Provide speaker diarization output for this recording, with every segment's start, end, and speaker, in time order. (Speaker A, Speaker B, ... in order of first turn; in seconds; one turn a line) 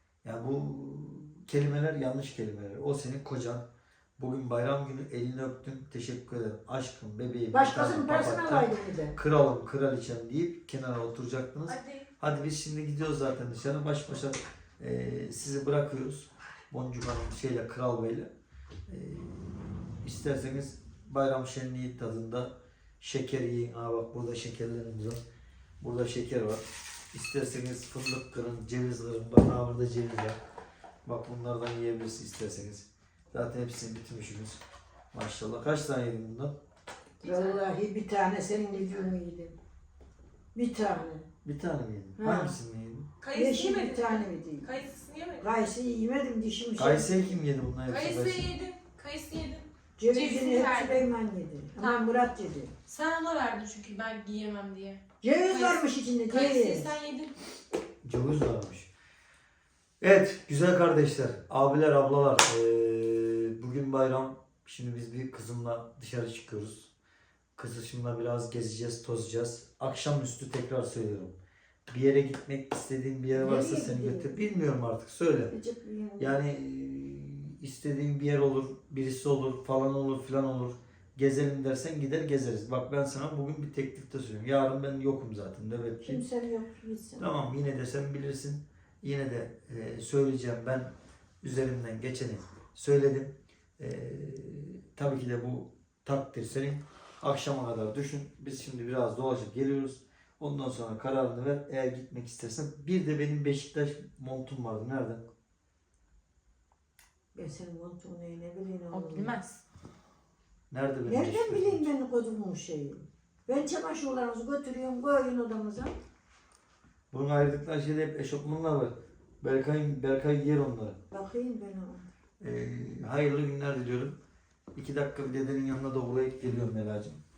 Speaker A: 0.2-3.7
Speaker A: 4.2-18.3
Speaker B: 7.5-9.2
Speaker C: 11.7-12.0
Speaker A: 18.9-25.2
Speaker A: 25.8-30.4
Speaker A: 31.1-34.6
Speaker A: 35.1-36.6
Speaker C: 37.2-37.6
Speaker B: 37.2-39.6
Speaker B: 40.5-41.3
Speaker A: 41.4-43.1
Speaker B: 42.2-42.6
Speaker C: 43.2-45.5
Speaker B: 43.3-44.7
Speaker B: 45.4-47.3
Speaker A: 46.8-48.5
Speaker C: 47.9-51.0
Speaker B: 50.0-52.8
Speaker C: 52.9-57.3
Speaker B: 55.2-56.9
Speaker A: 58.0-58.9
Speaker A: 60.0-66.9
Speaker A: 67.6-71.4
Speaker A: 71.9-75.5
Speaker B: 73.3-74.3
Speaker B: 75.5-76.4
Speaker A: 76.2-86.2
Speaker B: 86.0-87.3
Speaker A: 87.2-105.2
Speaker B: 107.3-109.4
Speaker C: 108.9-109.6
Speaker A: 110.7-111.9
Speaker B: 111.1-116.0
Speaker A: 117.1-121.0
Speaker B: 121.1-122.1
Speaker A: 122.4-124.2
Speaker A: 124.8-127.2